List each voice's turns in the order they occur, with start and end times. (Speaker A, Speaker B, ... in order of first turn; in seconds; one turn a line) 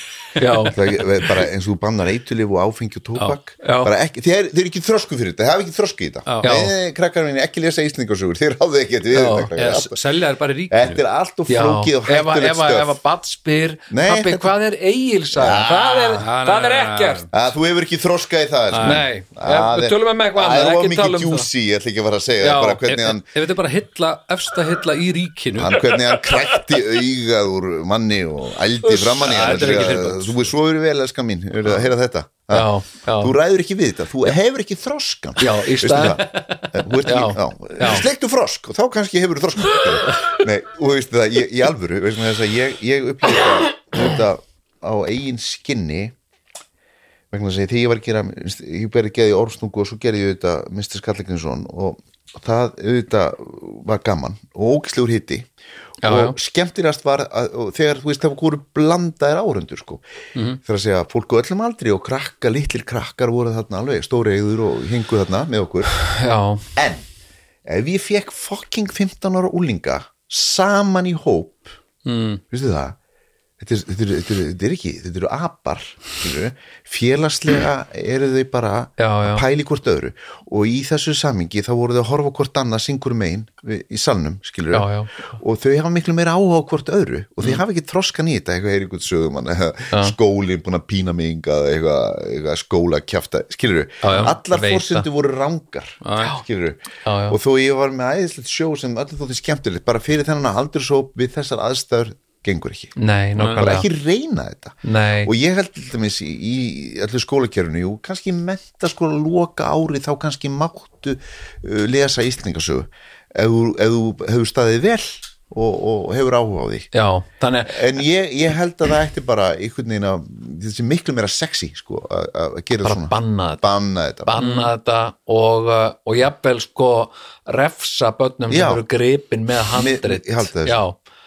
Speaker A: 0.4-0.8
Speaker B: 0.7-10.0
Speaker A: 3.6-3.9
Speaker C: 6.3-6.5
Speaker A: 6.4-6.7
Speaker A: 9.2-9.5
Speaker C: 9.6-11.0
Speaker B: 10.7-13.0
Speaker A: 11.5-17.3
Speaker B: 13.9-14.5
Speaker B: 15.3-16.3
Speaker C: 16.2-17.3
Speaker B: 17.3-23.3
Speaker C: 18.7-19.1
Speaker A: 18.8-21.5
Speaker A: 22.4-22.8
Speaker C: 22.8-26.6
Speaker B: 25.6-46.2
Speaker C: 28.9-30.5
Speaker A: 29.1-30.0
Speaker A: 32.5-33.3
Speaker A: 35.4-36.2
Speaker A: 37.0-38.1
Speaker B: 47.3-55.5
Speaker A: 56.0-56.4
Speaker B: 56.0-60.0
Speaker B: 60.6-66.0
Speaker A: 66.1-66.7
Speaker B: 66.8-67.0
Speaker B: 67.7-71.7
Speaker C: 72.0-72.4
Speaker B: 72.5-73.0
Speaker B: 73.6-96.8
Speaker A: 79.0-79.4
Speaker A: 84.7-85.3
Speaker A: 94.0-95.1
Speaker C: 96.0-96.3
Speaker A: 97.0-97.4
Speaker B: 97.3-102.9
Speaker A: 103.0-103.9
Speaker B: 103.6-116.9
Speaker A: 104.8-105.3
Speaker A: 116.9-117.9
Speaker B: 117.7-124.4
Speaker A: 122.8-123.6
Speaker A: 124.3-131.0
Speaker C: 124.4-124.7
Speaker B: 128.5-128.8
Speaker B: 129.7-130.8